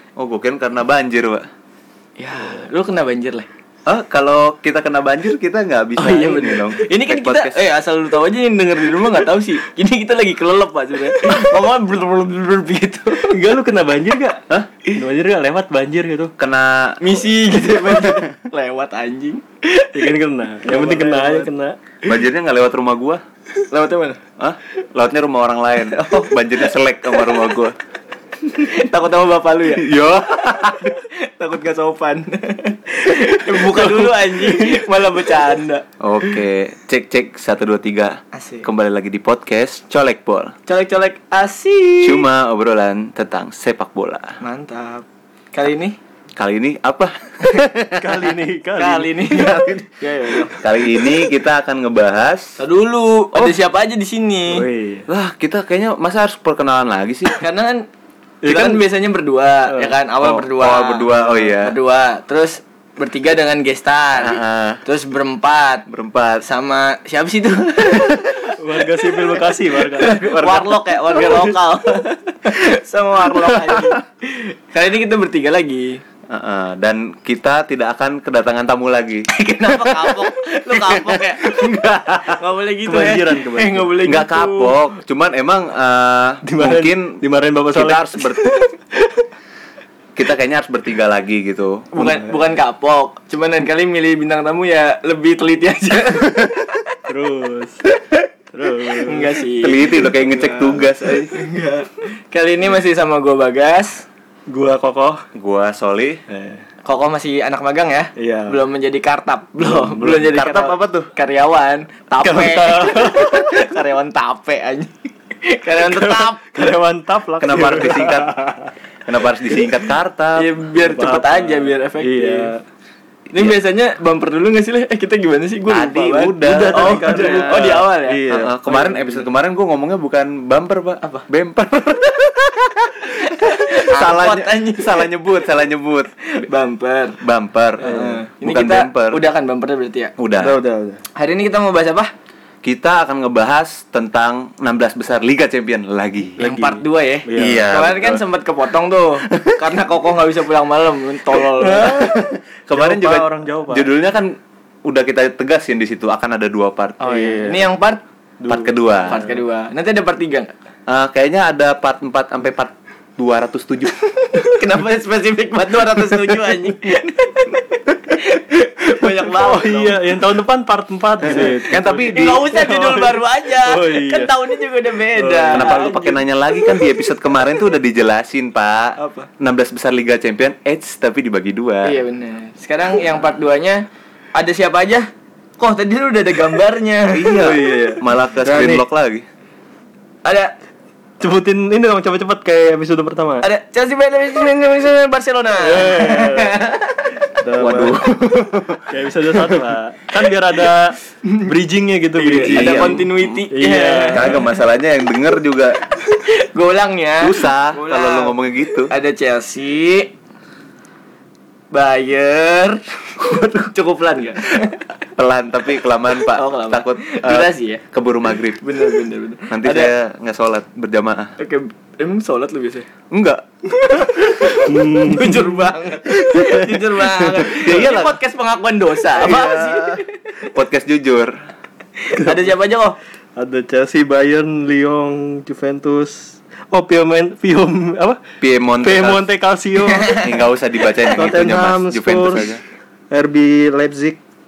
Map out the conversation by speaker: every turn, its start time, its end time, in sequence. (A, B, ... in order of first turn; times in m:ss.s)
0:00.2-0:01.5 A
0:02.2-0:03.5 B
0:03.9-0:07.6 A
0:06.0-0:13.4 B
0:13.2-0:16.3 C
0:16.4-0:17.0 A
0:17.0-0:20.1 B
0:19.9-0:21.8 C
0:20.6-0:21.5 B
0:22.1-0:23.2 A
0:23.7-0:24.2 B
0:24.4-0:27.8 A
0:25.9-0:26.3 B
0:28.4-0:36.4 B
0:29.8-0:31.0 A
0:33.5-0:34.8 C
0:36.0-0:40.6 A
0:38.3-0:38.7 B
0:40.7-0:42.3 B
0:42.0-0:44.4 A
0:44.4-0:46.0 B
0:46.4-0:48.3 A
0:48.0-0:49.2 C
0:48.8-0:50.6 B
0:49.4-0:49.8 A
0:50.5-0:52.6 A
0:52.6-0:54.7 B
0:54.5-0:55.1 C
0:55.1-0:57.4 A
0:57.4-0:57.9 B
0:58.4-0:58.9 C
0:58.4-1:05.9 B
0:59.7-0:59.9 C
1:00.2-1:01.8 A
1:04.2-1:04.8 A
1:05.9-1:06.4 A
1:06.4-1:16.0 B
1:08.6-1:10.6 C
1:11.2-1:11.4 C
1:16.3-1:20.2 A
1:19.3-1:24.8 B
1:20.7-1:22.4 A
1:22.9-1:23.9 C
1:24.0-1:27.2 A
1:26.4-1:28.6 C
1:27.7-1:28.5 A
1:30.2-1:32.3 A
1:31.9-1:36.8 B
1:37.1-1:37.8 C
1:38.5-1:39.4 C
1:38.8-1:44.1 B
1:39.6-1:41.4 A
1:44.5-1:45.2 C
1:45.4-1:46.2 A
1:46.3-1:46.6 C
1:46.8-1:56.7 B
1:48.2-1:48.6 C
1:49.6-1:50.4 C
1:50.2-1:51.1 A
1:52.2-1:53.5 C
1:55.8-1:58.7 C
1:57.4-1:58.4 A
1:59.1-2:00.6 A
2:00.4-2:02.5 B
2:00.8-2:02.6 C
2:03.3-2:08.2 B
2:05.7-2:07.8 A
2:06.4-2:09.2 C
2:08.3-2:16.1 A
2:13.0-2:15.1 B
2:16.3-2:17.2 B
2:17.2-2:19.2 A
2:17.8-2:20.1 B
2:17.8-2:18.2 C
2:20.2-2:20.6 A
2:20.4-2:21.0 C
2:21.2-2:22.1 B
2:22.6-2:26.4 A
2:26.4-2:27.7 C
2:26.4-2:32.1 B
2:27.3-2:28.2 A
2:29.3-2:29.6 A
2:31.5-2:32.2 C
2:31.9-2:37.0 A
2:32.7-2:33.9 C
2:37.0-2:37.8 C
2:37.0-2:38.0 B
2:38.4-2:39.4 C
2:38.5-2:39.2 A
2:39.1-2:40.5 B
2:40.9-2:44.0 A
2:44.3-2:50.0 B
2:49.2-2:54.4 C
2:51.3-2:56.2 B
2:51.7-2:52.3 A
2:55.2-2:55.8 C
2:55.5-3:02.0 A
2:59.0-2:59.3 B
3:01.8-3:07.8 B
3:07.1-3:09.2 A
3:07.4-3:08.0 C
3:08.4-3:08.8 B
3:10.2-3:10.5 B
3:11.2-3:13.5 C
3:13.4-3:17.2 B
3:15.6-3:16.6 C
3:17.4-3:18.0 C
3:17.6-3:18.9 A
3:18.9-3:24.4 C
3:22.2-3:24.4 B
3:22.5-3:23.4 A
3:24.1-3:25.8 A
3:26.1-3:28.4 B
3:27.2-3:28.9 A
3:28.9-3:30.1 B
3:31.7-3:34.8 B
3:35.2-3:38.6 A
3:36.3-3:37.8 B
3:38.6-3:39.9 B
3:39.5-3:41.3 A
3:41.4-3:42.9 B
3:43.1-3:43.4 A
3:43.8-3:50.2 B
3:44.6-3:45.6 C
3:46.3-3:48.2 A
3:49.1-3:51.4 A
3:52.0-3:53.0 B
3:52.2-3:52.5 C
3:53.4-3:58.2 C
3:58.4-3:59.3 A
3:58.8-4:00.2 C
3:59.9-4:00.3 B
4:00.2-4:02.6 A
4:01.1-4:02.5 C
4:03.1-4:04.2 C